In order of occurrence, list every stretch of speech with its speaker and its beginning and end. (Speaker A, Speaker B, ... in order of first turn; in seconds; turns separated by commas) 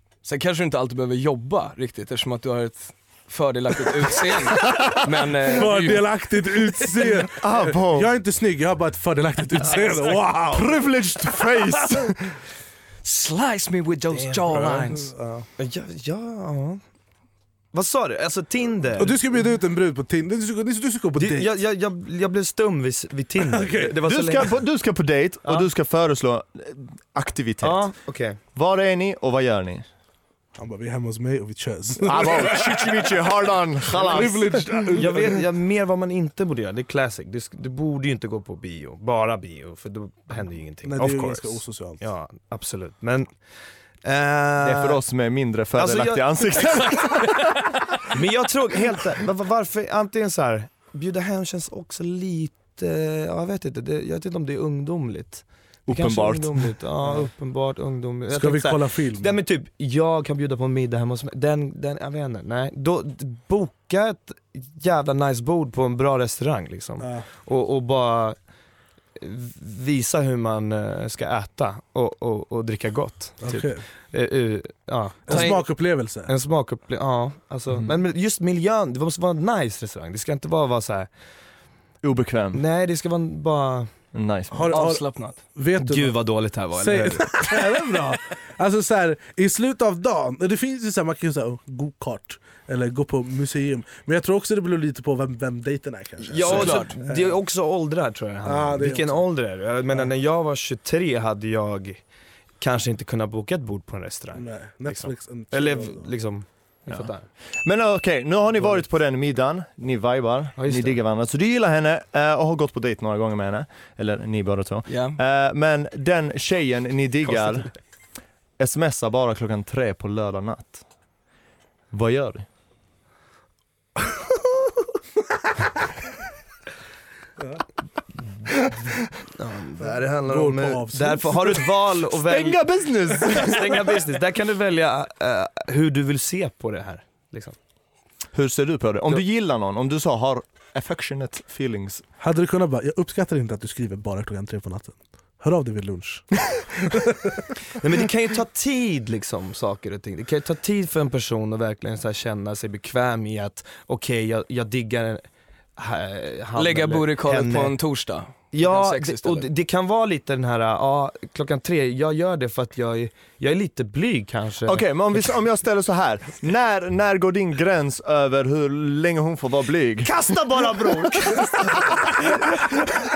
Speaker A: 0.2-6.2, Speaker B: 5.5-10.8, Speaker C: 7.3-8.1, Speaker D: 9.6-10.0, Speaker C: 10.5-12.4, Speaker A: 13.0-15.1, Speaker D: 14.1-14.6, Speaker B: 14.5-15.4, Speaker D: 15.6-16.8, Speaker D: 17.7-19.2, Speaker B: 19.0-21.5, Speaker D: 21.2-24.6, Speaker B: 23.4-23.9, Speaker C: 24.0-29.9, Speaker D: 27.6-28.4, Speaker B: 30.6-33.1, Speaker C: 32.0-34.9, Speaker B: 33.9-35.4, Speaker D: 34.9-45.0, Speaker B: 40.8-42.0, Speaker C: 44.6-47.6, Speaker D: 45.7-46.8, Speaker D: 48.1-68.4, Speaker C: 55.9-56.8, Speaker B: 57.0-57.3, Speaker B: 58.3-59.3, Speaker B: 67.0-67.2, Speaker D: 69.2-81.1, Speaker B: 73.4-73.8, Speaker B: 75.3-76.3, Speaker C: 82.0-82.6, Speaker D: 82.5-83.9, Speaker C: 84.1-84.7, Speaker B: 84.5-97.4, Speaker A: 84.7-85.4, Speaker D: 85.8-87.6, Speaker D: 96.2-102.0, Speaker A: 96.4-96.9, Speaker B: 98.4-100.1, Speaker D: 102.6-107.3, Speaker B: 104.3-106.1, Speaker C: 106.9-117.8, Speaker D: 110.5-111.0, Speaker A: 114.9-115.2, Speaker C: 118.6-120.8, Speaker C: 121.9-122.5, Speaker D: 129.3-137.6, Speaker B: 130.2-131.6, Speaker C: 132.2-133.8, Speaker C: 138.3-142.0, Speaker B: 142.2-146.4, Speaker B: 146.9-147.4, Speaker D: 147.8-155.2, Speaker D: 155.8-157.8, Speaker A: 156.6-159.5, Speaker D: 158.5-165.3, Speaker C: 164.7-170.3, Speaker D: 170.0-172.0, Speaker C: 171.4-172.1